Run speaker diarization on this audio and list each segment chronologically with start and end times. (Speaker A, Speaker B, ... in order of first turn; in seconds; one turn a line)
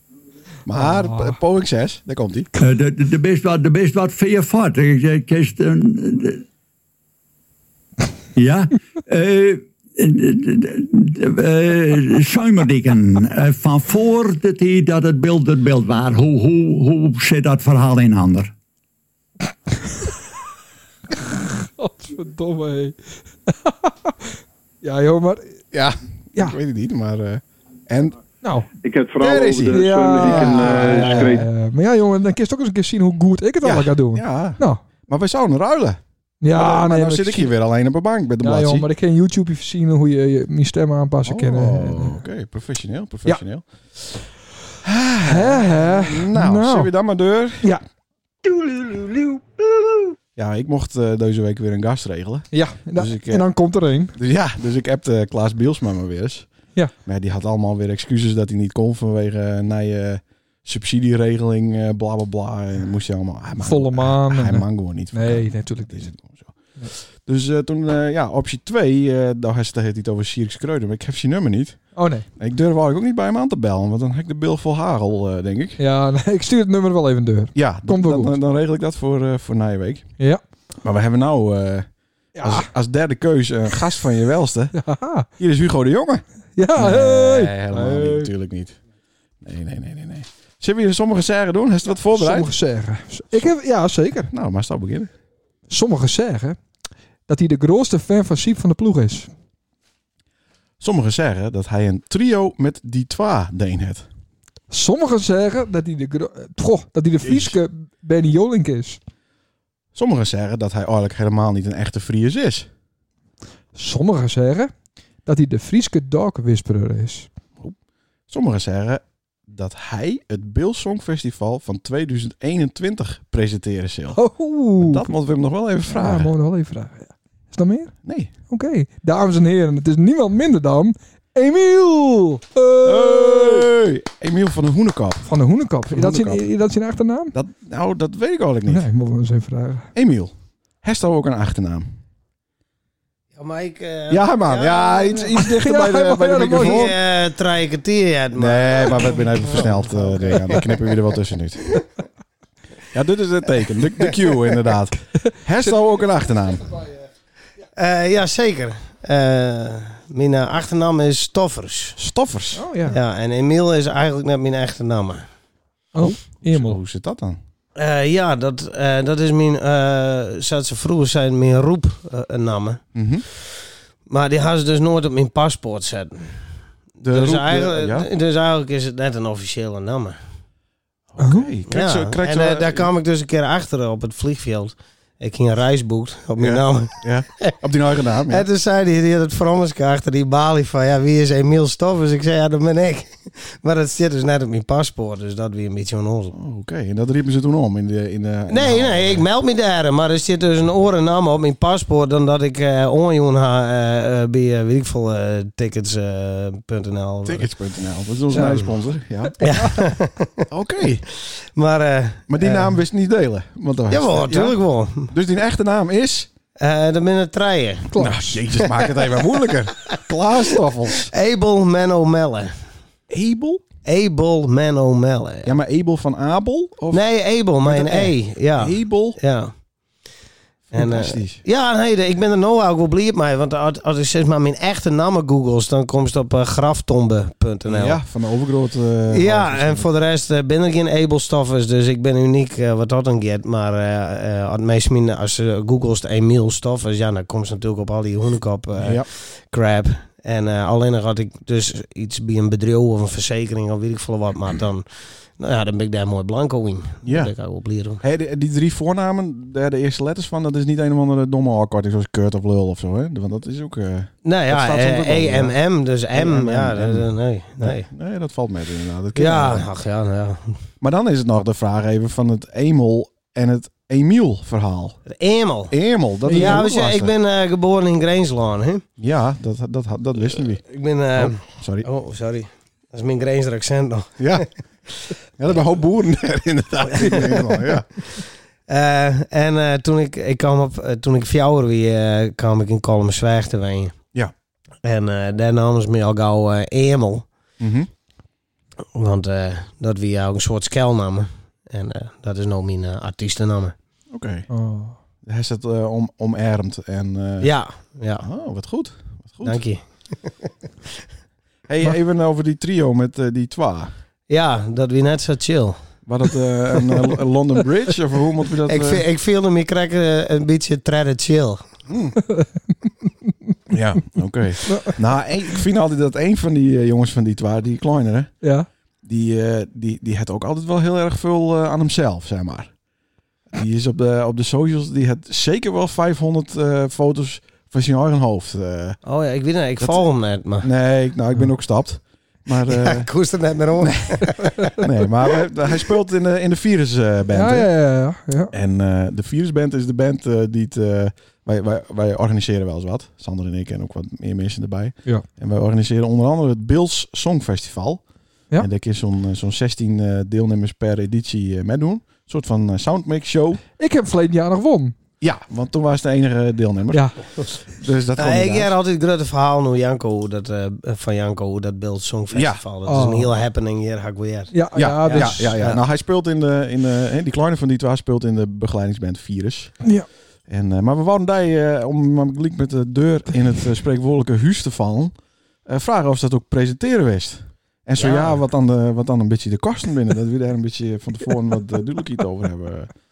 Speaker A: 0.7-2.5
Speaker B: 0.7-1.4
Speaker C: 2.5-6.4
Speaker C: 8.3-18.5
Speaker B: 21.2-22.9
Speaker B: 23.5-25.6
Speaker A: 25.7-28.1
Speaker B: 28.4-28.7
Speaker D: 28.8-31.4
Speaker A: 29.2-31.4
Speaker B: 29.7-34.8
Speaker A: 33.6-36.0
Speaker B: 36.4-37.5
Speaker A: 36.5-38.9
Speaker B: 38.4-42.1
Speaker A: 41.2-43.6
Speaker A: 44.8-47.7
Speaker B: 45.2-46.9
Speaker B: 48.4-49.4
Speaker A: 50.4-53.5
Speaker B: 52.5-54.1
Speaker A: 54.1-56.5
Speaker A: 57.0-66.5
Speaker B: 63.6-66.1
Speaker A: 67.2-71.8
Speaker B: 72.0-72.3
Speaker A: 72.4-75.8
Speaker B: 75.8-78.3
Speaker A: 77.5-80.0
Speaker A: 80.8-81.9
Speaker B: 82.3-82.7
Speaker A: 82.4-84.7
Speaker B: 84.7-85.3
Speaker A: 85.4-86.2
Speaker B: 86.5-88.3
Speaker A: 86.8-88.8
Speaker A: 89.4-92.5
Speaker B: 92.1-94.3
Speaker A: 94.3-95.1
Speaker B: 95.7-96.6
Speaker B: 97.3-99.3
Speaker A: 100.8-104.0
Speaker B: 104.7-109.0
Speaker A: 107.2-107.6
Speaker A: 109.9-112.7
Speaker B: 113.7-114.7
Speaker B: 115.2-117.3
Speaker A: 118.3-124.2
Speaker B: 124.1-125.1
Speaker A: 124.8-126.3
Speaker B: 125.9-127.9
Speaker A: 128.0-128.3
Speaker B: 128.5-133.7
Speaker A: 132.8-135.3
Speaker B: 135.3-137.3
Speaker A: 135.9-136.5
Speaker A: 137.3-138.9
Speaker B: 138.7-139.9
Speaker A: 139.9-141.9
Speaker E: 143.3-145.4
Speaker A: 144.1-146.9
Speaker B: 145.4-146.9
Speaker E: 146.5-150.9
Speaker A: 148.3-151.7
Speaker A: 152.9-156.7
Speaker E: 157.7-162.0
Speaker A: 162.0-162.6
Speaker B: 162.6-162.9
Speaker E: 162.9-165.2
Speaker B: 165.9-166.8
Speaker A: 166.0-167.4
Speaker E: 167.8-172.8
Speaker A: 172.9-173.2
Speaker E: 174.1-176.3
Speaker E: 177.0-180.2
Speaker A: 177.0-178.1
Speaker A: 181.1-182.9
Speaker B: 181.2-181.5
Speaker E: 181.7-187.5
Speaker A: 186.4-188.5
Speaker E: 188.3-196.3
Speaker A: 196.3-199.2
Speaker E: 198.5-207.5
Speaker A: 207.2-209.8
Speaker E: 208.3-208.7
Speaker E: 209.4-210.5
Speaker A: 210.5-211.0
Speaker E: 211.1-212.8
Speaker A: 212.3-214.6
Speaker E: 213.9-215.1
Speaker A: 215.1-216.3
Speaker E: 216.6-217.9
Speaker B: 217.9-218.4
Speaker A: 218.0-221.1
Speaker E: 218.5-220.0
Speaker E: 220.9-222.5
Speaker A: 223.1-223.6
Speaker E: 223.8-225.5
Speaker A: 225.4-227.0
Speaker E: 226.9-229.5
Speaker A: 227.6-229.2
Speaker A: 230.7-231.4
Speaker E: 230.7-238.0
Speaker A: 237.7-239.9
Speaker E: 239.1-258.0
Speaker A: 248.8-249.1
Speaker A: 257.0-257.3
Speaker A: 258.0-265.5
Speaker E: 264.2-267.9
Speaker A: 266.1-267.1
Speaker A: 267.6-269.7
Speaker E: 269.1-270.6
Speaker A: 270.8-275.0
Speaker E: 275.1-275.7
Speaker A: 275.7-277.1
Speaker B: 276.2-276.6
Speaker E: 276.3-278.8
Speaker A: 279.0-280.6
Speaker E: 280.6-284.5
Speaker A: 281.1-281.9
Speaker A: 284.2-284.5
Speaker A: 285.4-288.0
Speaker E: 286.9-293.9
Speaker E: 294.8-297.3
Speaker A: 297.6-297.9
Speaker E: 298.9-303.7
Speaker A: 304.1-304.5
Speaker B: 304.5-305.0
Speaker A: 305.2-307.5
Speaker E: 307.4-308.3
Speaker A: 308.2-309.6
Speaker E: 309.4-310.5
Speaker A: 311.7-313.9
Speaker E: 314.3-315.8
Speaker A: 316.1-319.0
Speaker E: 318.6-321.6
Speaker A: 321.9-322.2
Speaker A: 323.7-328.3
Speaker B: 324.7-324.9
Speaker B: 328.4-328.7
Speaker A: 329.0-332.7
Speaker A: 333.5-339.0
Speaker E: 339.0-340.7
Speaker A: 340.6-343.1
Speaker E: 342.6-345.4
Speaker A: 343.8-347.7
Speaker B: 347.3-348.5
Speaker A: 348.5-358.0
Speaker A: 358.6-363.6
Speaker B: 363.8-364.9
Speaker A: 365.2-368.7
Speaker B: 366.9-367.2
Speaker E: 368.1-375.8
Speaker A: 372.3-372.6
Speaker B: 372.9-373.3
Speaker B: 374.5-375.6
Speaker A: 374.7-379.8
Speaker A: 380.5-385.1
Speaker A: 385.7-392.9
Speaker E: 388.0-388.4